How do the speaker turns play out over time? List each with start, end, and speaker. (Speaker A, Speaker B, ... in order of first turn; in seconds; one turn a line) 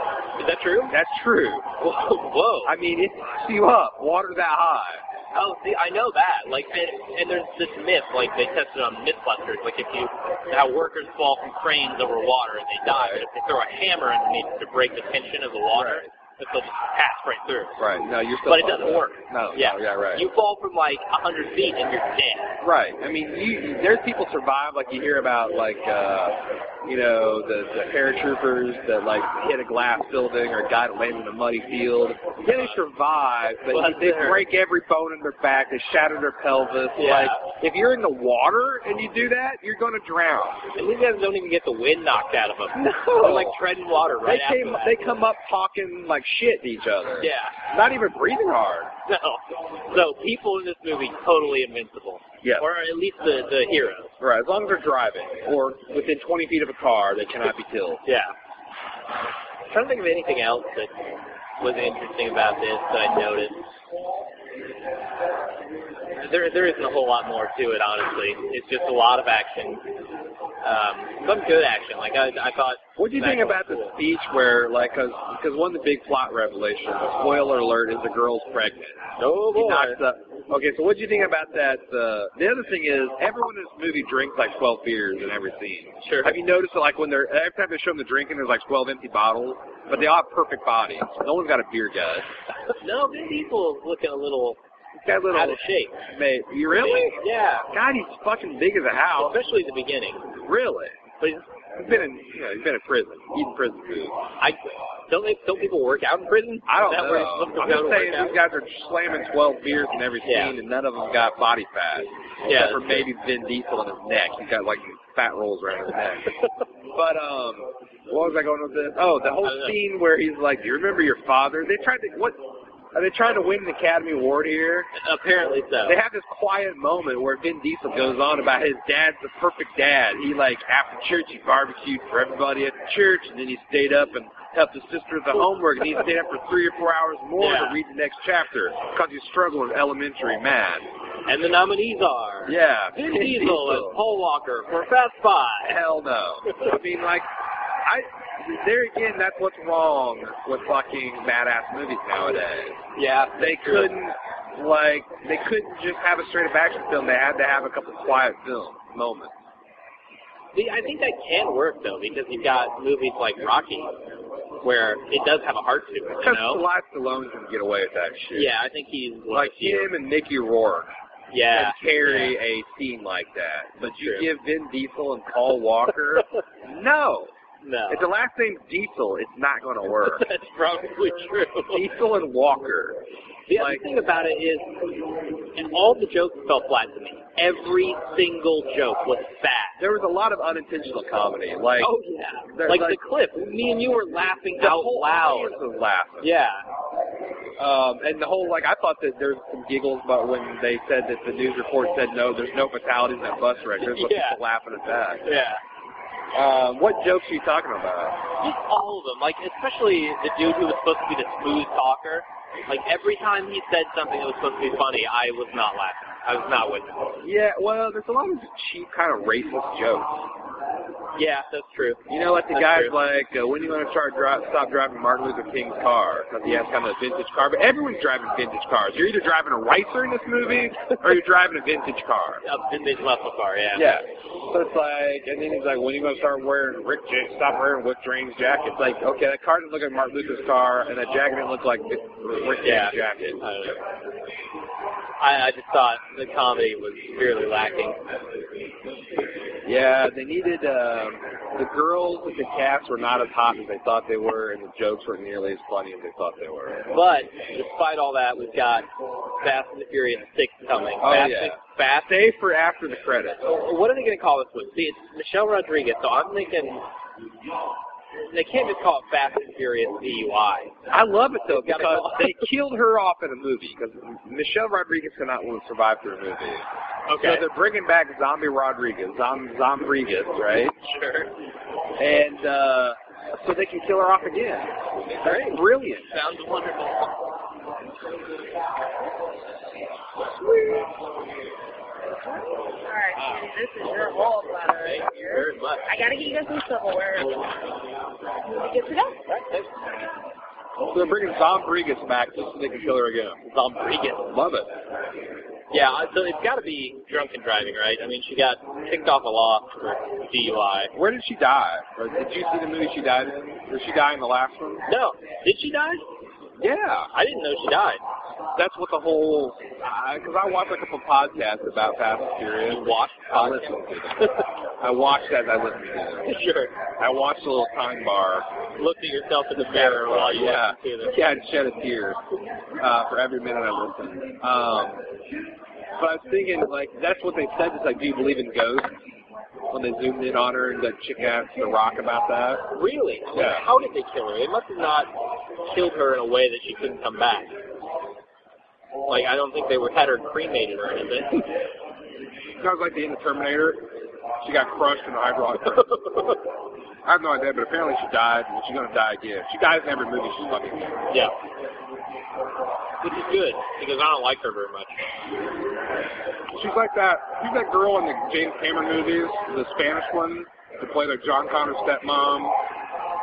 Speaker A: 0.4-1.0
Speaker B: 0.9-1.7
Speaker A: 1.8-2.7
Speaker B: 2.6-5.0
Speaker A: 5.3-17.8
Speaker B: 12.9-13.2
Speaker B: 15.7-16.1
Speaker B: 17.8-20.2
Speaker A: 18.5-22.6
Speaker B: 22.6-40.6
Speaker A: 33.7-34.4
Speaker A: 37.0-37.4
Speaker A: 40.8-45.0
Speaker B: 42.8-43.6
Speaker B: 44.2-48.9
Speaker A: 47.2-47.6
Speaker A: 49.1-54.1
Speaker B: 54.2-58.0
Speaker A: 58.0-58.3
Speaker A: 59.7-60.9
Speaker A: 61.6-63.7
Speaker A: 66.2-69.8
Speaker A: 70.6-74.0
Speaker B: 73.0-79.0
Speaker A: 79.2-80.0
Speaker B: 79.5-92.3
Speaker A: 86.0-86.4
Speaker A: 92.8-94.6
Speaker B: 95.0-99.4
Speaker A: 95.3-96.0
Speaker A: 96.7-97.7
Speaker A: 99.2-100.3
Speaker B: 100.4-101.0
Speaker A: 101.2-101.5
Speaker B: 101.8-104.2
Speaker A: 105.1-108.4
Speaker B: 106.7-116.3
Speaker A: 110.2-110.5
Speaker A: 112.5-113.1
Speaker B: 116.9-122.4
Speaker A: 119.4-119.8
Speaker B: 122.9-124.9
Speaker A: 125.0-126.0
Speaker B: 125.8-140.9
Speaker A: 137.4-137.8
Speaker A: 141.3-145.8
Speaker B: 142.5-144.0
Speaker B: 145.7-147.3
Speaker B: 147.8-152.8
Speaker A: 153.0-153.9
Speaker B: 153.4-159.3
Speaker A: 160.5-163.9
Speaker A: 164.6-166.6
Speaker B: 166.2-168.5
Speaker A: 168.3-169.9
Speaker B: 169.3-170.9
Speaker A: 171.3-172.4
Speaker B: 171.5-177.3
Speaker A: 174.0-174.3
Speaker A: 177.6-178.0
Speaker B: 177.9-180.2
Speaker A: 180.0-181.8
Speaker B: 181.7-183.0
Speaker A: 183.5-184.8
Speaker B: 183.5-183.8
Speaker A: 185.6-189.8
Speaker B: 189.8-191.9
Speaker A: 191.8-195.6
Speaker B: 192.5-193.0
Speaker B: 194.6-196.3
Speaker A: 196.2-196.7
Speaker B: 197.6-205.2
Speaker A: 203.8-204.4
Speaker A: 205.2-205.6
Speaker B: 206.3-208.2
Speaker A: 208.4-216.9
Speaker B: 217.2-220.2
Speaker A: 221.2-222.9
Speaker B: 222.1-232.4
Speaker A: 232.4-234.0
Speaker B: 233.8-243.4
Speaker A: 242.6-243.8
Speaker A: 245.2-248.0
Speaker B: 249.7-256.9
Speaker A: 256.9-258.9
Speaker A: 259.4-262.1
Speaker B: 261.0-263.4
Speaker A: 263.4-266.8
Speaker A: 268.3-270.8
Speaker B: 270.9-276.6
Speaker A: 271.5-272.4
Speaker A: 277.1-277.4
Speaker B: 277.2-280.8
Speaker A: 280.8-281.3
Speaker B: 282.0-286.1
Speaker A: 285.2-287.1
Speaker C: 292.8-297.5
Speaker A: 294.8-295.9
Speaker C: 298.5-299.2
Speaker A: 299.3-299.7
Speaker B: 300.9-303.4
Speaker A: 303.4-304.3
Speaker B: 304.3-304.7
Speaker A: 305.7-310.9
Speaker B: 310.9-314.9
Speaker A: 314.9-316.0
Speaker B: 316.6-317.1
Speaker A: 317.1-318.0
Speaker B: 318.6-326.3
Speaker A: 322.7-324.5
Speaker A: 326.2-326.8
Speaker B: 327.0-328.5
Speaker A: 328.8-331.2
Speaker B: 329.7-332.2
Speaker B: 332.8-335.0
Speaker B: 336.0-338.9
Speaker B: 339.7-342.7
Speaker A: 342.7-345.1
Speaker B: 343.3-343.6
Speaker A: 345.6-347.5
Speaker A: 349.1-351.5
Speaker B: 352.6-353.9
Speaker B: 354.4-355.9
Speaker A: 355.8-356.4
Speaker B: 357.1-361.0
Speaker A: 363.0-364.9
Speaker B: 366.5-372.6